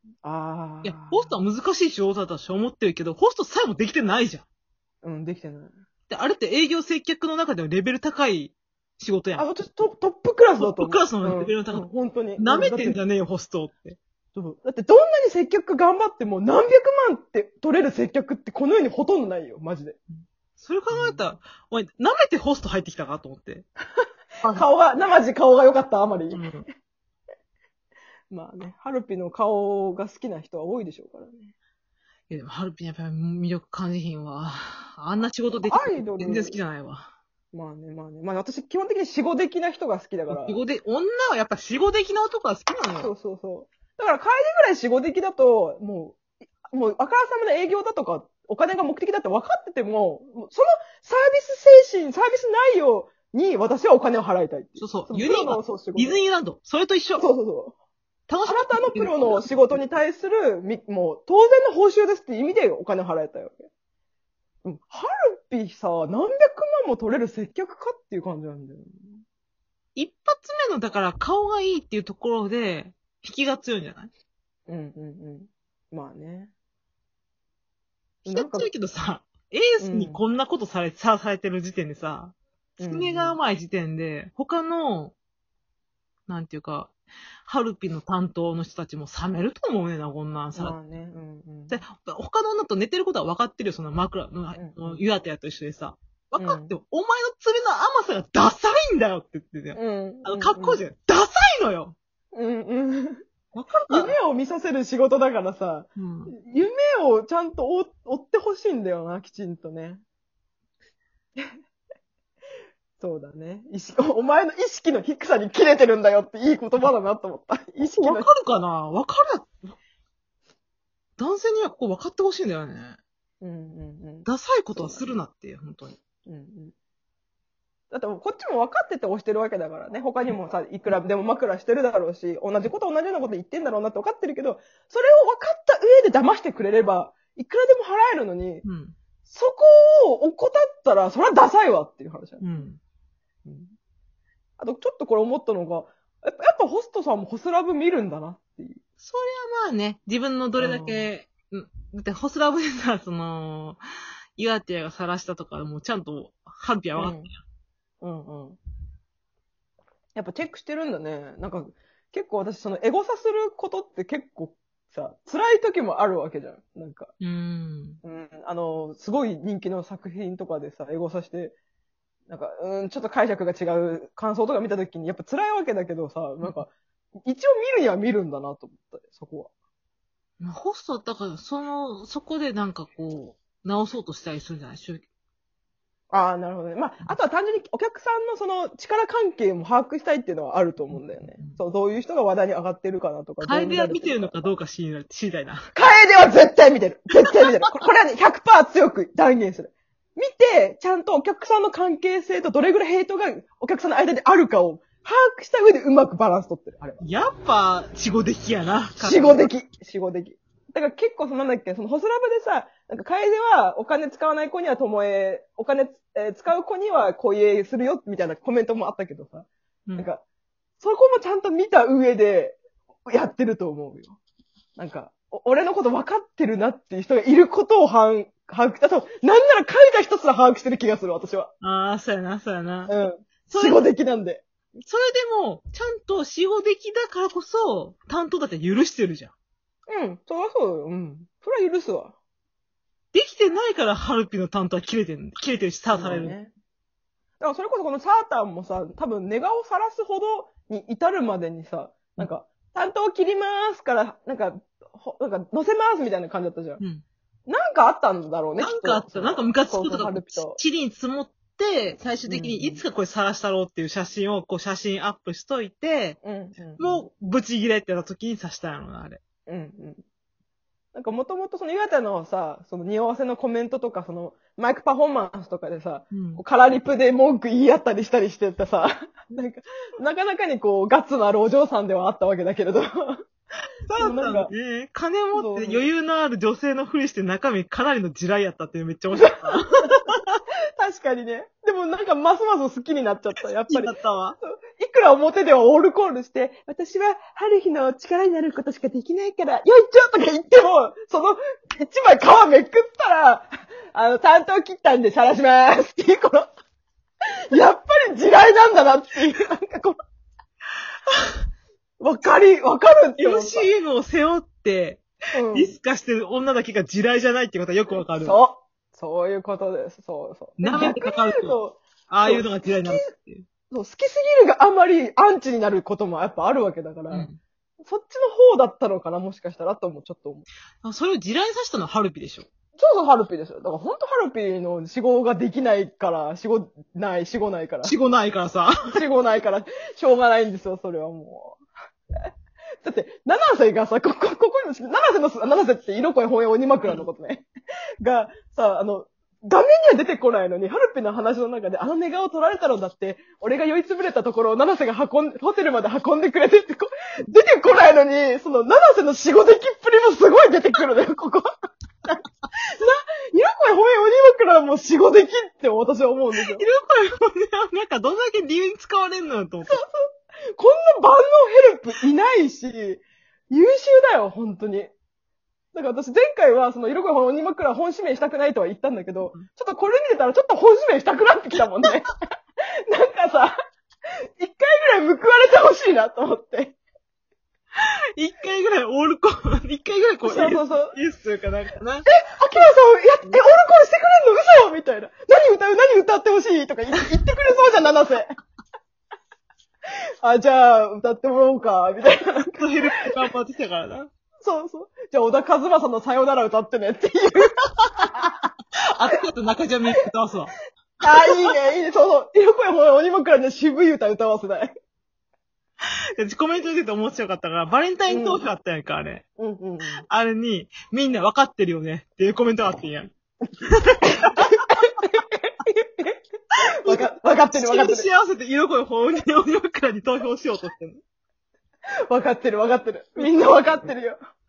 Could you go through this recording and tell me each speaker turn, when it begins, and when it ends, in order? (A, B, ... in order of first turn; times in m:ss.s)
0:00.2-0:01.4 A
0:00.8-0:04.4 B
0:05.0-0:05.7 A
0:06.1-0:09.4 B
0:09.4-0:13.0 A
0:10.6-0:11.8 B
0:12.4-0:14.0 B
0:14.3-0:20.0 A
0:20.6-0:23.6 B
0:20.9-0:21.2 A
0:24.0-0:26.4 A
0:26.3-0:26.6 B
0:28.3-0:31.5 A
0:32.3-0:37.1 B
0:35.7-0:36.6 A
0:37.5-0:40.6 A
0:40.3-0:43.1 B
0:42.9-0:56.2 A
0:54.8-0:57.2 B
0:57.2-0:57.8 A
0:58.3-0:59.5 B
0:58.5-1:03.7 A
1:04.6-1:09.2 A
1:09.9-1:14.1 B
1:14.7-1:16.5 A
1:18.2-1:18.7 A
1:18.2-1:25.1 B
1:19.8-1:20.2 A
1:22.8-1:23.4 A
1:26.3-1:26.9 B
1:27.4-1:30.8 B
1:30.5-1:31.8 A
1:31.7-1:42.0 B
1:34.5-1:35.0 A
1:36.4-1:36.7 A
1:39.7-1:40.8 A
1:42.3-1:43.2 A
1:43.5-1:44.2 B
1:43.9-1:50.0 A
1:46.0-1:46.3 B
1:53.0-1:58.3 A
1:57.8-1:59.5 B
2:01.2-2:03.0 B
2:03.4-2:05.0 A
2:04.2-2:06.0 B
2:06.2-2:06.7 A
2:07.9-2:18.6 A
2:18.6-2:19.0 B
2:19.2-2:22.4 A
2:22.4-2:22.8 B
2:23.4-2:23.7 A
2:24.6-2:28.8 A
2:29.0-2:33.8 B
2:30.6-2:31.1 A
2:34.4-2:37.4 B
2:37.0-2:37.3 A
2:38.0-2:38.6 A
2:40.2-2:47.1 A
2:47.2-2:48.0 B
2:48.0-2:51.5 A
2:52.3-2:56.7 A
2:57.2-2:59.5 A
3:00.4-3:05.0 B
3:06.1-3:14.4 A
3:10.9-3:11.6 B
3:13.4-3:15.7 B
3:15.7-3:27.0 A
3:27.0-3:29.4 B
3:29.0-3:40.2 A
3:40.8-3:44.2 A
3:44.8-3:51.5 A
3:51.6-3:52.9 B
3:52.9-3:54.4 A
3:53.5-3:53.8 B
3:54.8-3:59.3 B
3:59.9-4:02.1 A
4:03.1-4:06.3 B
4:05.9-4:06.5 A
4:07.4-4:16.8 A
4:16.8-4:17.0 B
4:17.5-4:20.6 A
4:18.6-4:26.2 B
4:22.3-4:22.8 A
4:26.2-4:27.1 A
4:26.8-4:29.2 B
4:29.5-4:30.0 A
4:30.9-4:43.2 A
4:36.1-4:36.4 B
4:43.9-4:50.2 B
4:44.0-4:44.5 A
4:45.3-4:45.9 A
4:49.1-4:49.6 A
4:50.8-5:06.5 A
4:53.7-4:54.4 B
5:07.5-5:10.0 A
5:12.0-5:13.7 A
5:13.2-5:18.4 B
5:15.3-5:15.8 A
5:18.0-5:23.0 A
5:20.6-5:23.4 B
5:23.7-5:27.3 A
5:27.1-5:27.4 B
5:27.8-5:30.4 A
5:30.8-5:32.5 B
5:32.8-5:37.9 A
5:37.8-5:38.8 B
5:38.9-5:41.6 A
5:42.8-5:47.4 A
5:48.0-6:01.5 A
6:02.8-6:06.6 A
6:06.4-6:09.8 B
6:09.7-6:10.0 A
6:10.6-6:14.9 A
6:15.7-6:22.1 A
6:22.9-6:23.5 A
6:24.4-6:26.8 A
6:27.8-6:32.0 B
6:30.2-6:31.0 A
6:32.1-6:38.3 A
6:40.2-6:42.6 A
6:42.5-6:44.1 B
6:44.4-6:47.5 A
6:47.8-6:48.1 B
6:49.0-6:50.5 B
6:51.0-6:54.7 A
6:51.0-6:51.3 B
6:56.2-6:59.2 B
6:58.1-6:58.5 A
6:59.4-7:00.0 A
7:00.1-7:03.1 B
7:03.8-7:04.7 B
7:05.0-7:06.2 A
7:06.8-7:08.1 A
7:06.9-7:11.0 B
7:12.1-7:14.2 A
7:13.2-7:13.9 B